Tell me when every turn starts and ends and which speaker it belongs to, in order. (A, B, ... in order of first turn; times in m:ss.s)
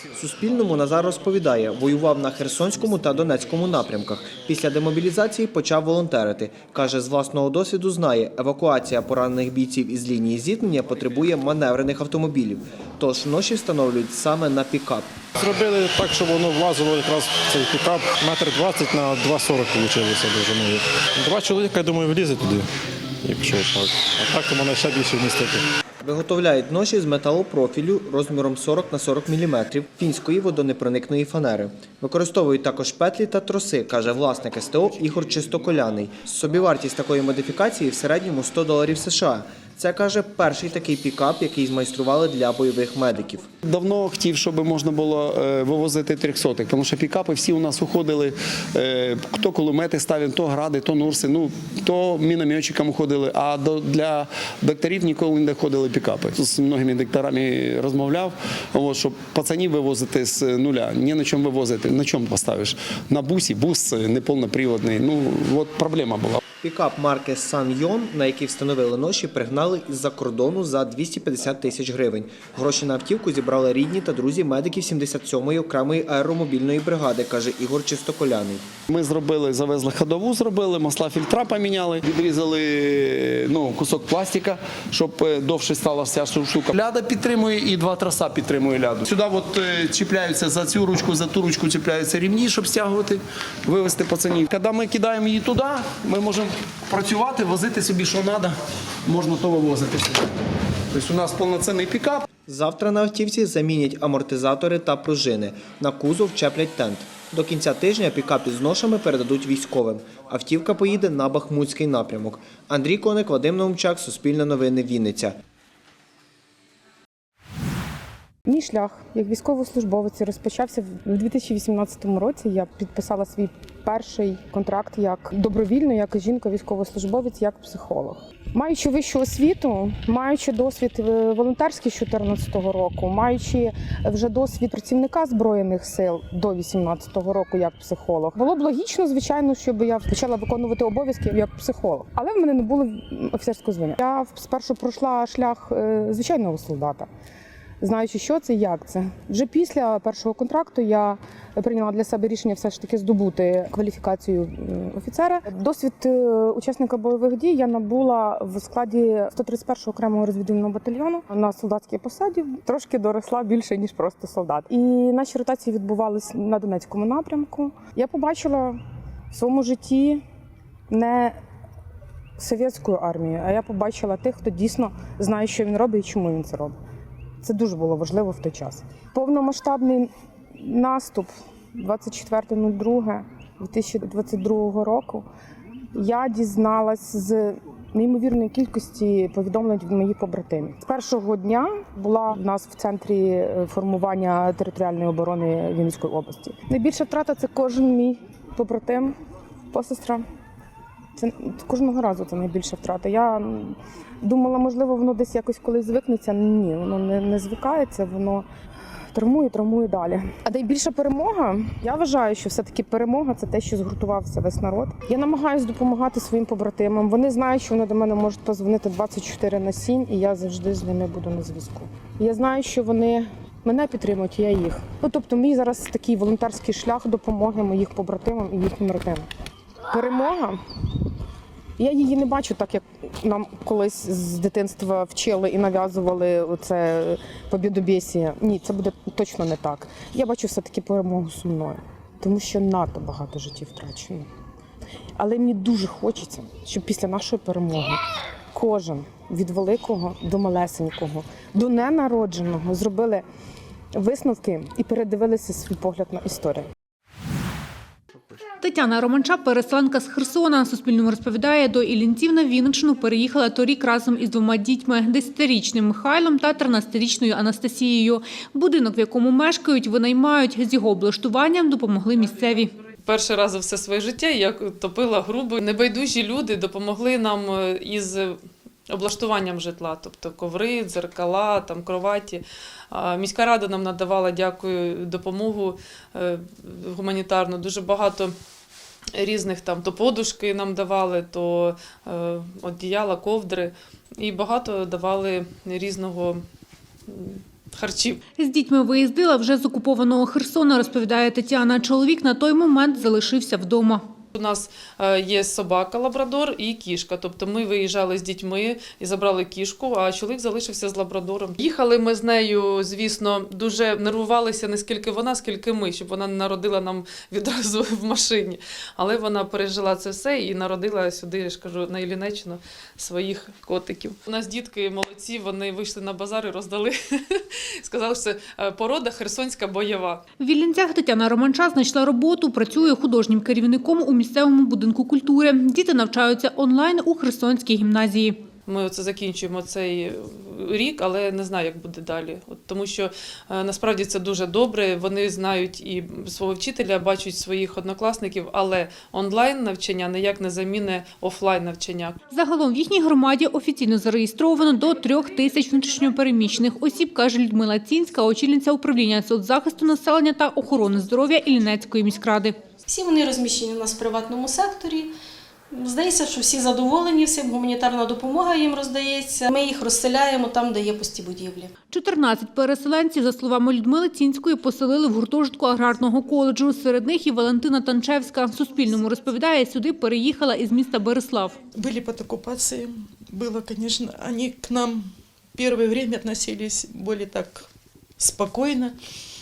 0:00.1-0:15.1 A
0:16.4-0:20.8 B
0:21.4-0:22.6 B
0:23.3-0:23.9 B
0:24.4-0:25.6 B
0:26.0-0:43.4 A
0:43.6-1:06.4 C
1:06.6-1:18.6 A
1:18.9-1:38.5 C
1:39.1-1:40.2 C
1:40.9-1:42.2 C
1:42.5-1:55.4 A
1:58.5-2:27.1 D
2:27.8-2:48.8 D
2:49.3-2:50.2 D
2:50.9-2:51.4 D
2:52.4-2:56.8 D
2:57.4-3:00.1 D
3:00.6-3:05.2 D
3:05.9-3:19.1 D
3:19.7-3:20.2 D
3:21.2-3:28.4 D
3:29.1-3:49.2 D
3:49.9-3:50.6 D
3:51.8-4:04.2 D
4:05.2-4:08.0 D
4:08.5-4:13.2 D
4:14.0-4:16.7 D
4:18.6-4:32.7 E
4:33.0-4:48.3 F
4:49.2-4:56.4 F
4:57.1-4:58.2 F
4:58.4-5:04.0 E
5:04.3-5:30.2 F
5:30.4-5:38.4 E
5:38.7-5:52.2 F
5:52.3-6:02.6 E
6:02.9-6:05.1 G
6:05.8-6:11.6 G
6:11.9-6:21.6 E
6:21.7-6:27.7 H
6:28.2-6:29.0 H